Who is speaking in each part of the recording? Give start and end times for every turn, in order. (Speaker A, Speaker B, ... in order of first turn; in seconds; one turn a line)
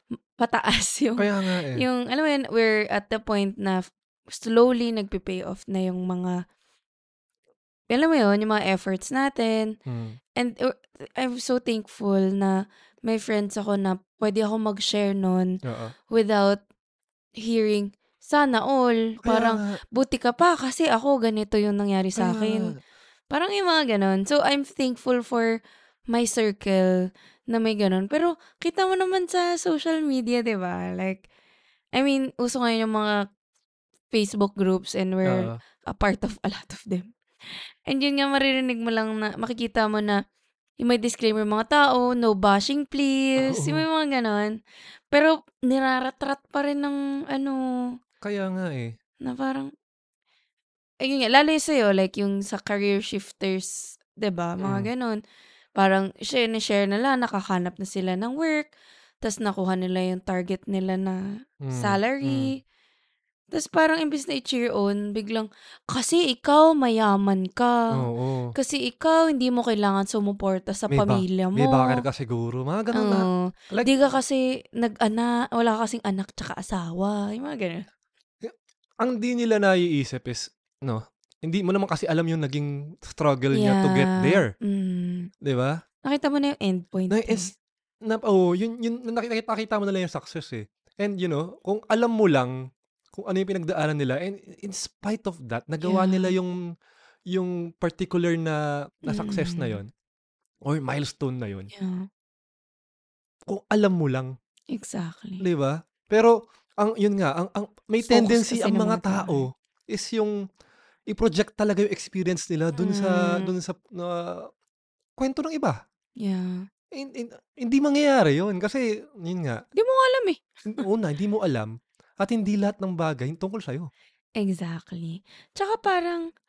Speaker A: 0.3-6.4
Speaker B: 1.2-1.8
Speaker A: 7.9-9.7
Speaker B: 9.8-10.2
Speaker A: 10.4-15.5
Speaker B: 15.6-15.9
Speaker A: 16.1-16.6
Speaker A: 17.4-22.7
Speaker B: 19.2-19.8
Speaker B: 22.2-22.8
Speaker A: 23.3-25.6
Speaker A: 26.1-31.2
Speaker A: 31.9-33.2
Speaker A: 34.1-37.1
Speaker B: 35.2-35.6
Speaker A: 37.9-40.2
Speaker A: 40.8-44.5
Speaker B: 43.4-43.8
Speaker A: 45.1-47.9
Speaker B: 48.2-48.9
Speaker A: 49.2-49.7
Speaker A: 51.0-55.2
Speaker B: 54.6-54.9
Speaker A: 55.8-58.7
Speaker A: 59.2-62.6
Speaker B: 61.6-62.5
Speaker A: 63.5-68.0
Speaker B: 67.9-68.5
Speaker A: 68.5-72.0
Speaker B: 70.9-73.9
Speaker A: 72.9-77.8
Speaker B: 78.4-84.5
Speaker A: 83.5-85.3
Speaker B: 85.4-85.8
Speaker A: 86.0-87.5
Speaker B: 87.1-87.5
Speaker B: 88.0-92.5
Speaker B: 93.1-96.6
Speaker A: 95.8-96.3
Speaker B: 97.3-99.9
Speaker A: 99.1-99.8
Speaker B: 100.6-101.7
Speaker A: 101.7-102.1
Speaker B: 103.5-104.3
Speaker A: 104.7-105.4
Speaker B: 105.4-110.4
Speaker A: 108.0-109.5
Speaker B: 111.1-114.5
Speaker A: 112.8-113.5
Speaker B: 115.2-115.8
Speaker A: 116.2-116.6
Speaker B: 116.9-119.6
Speaker A: 119.8-120.4
Speaker B: 120.7-123.9
Speaker A: 124.4-126.3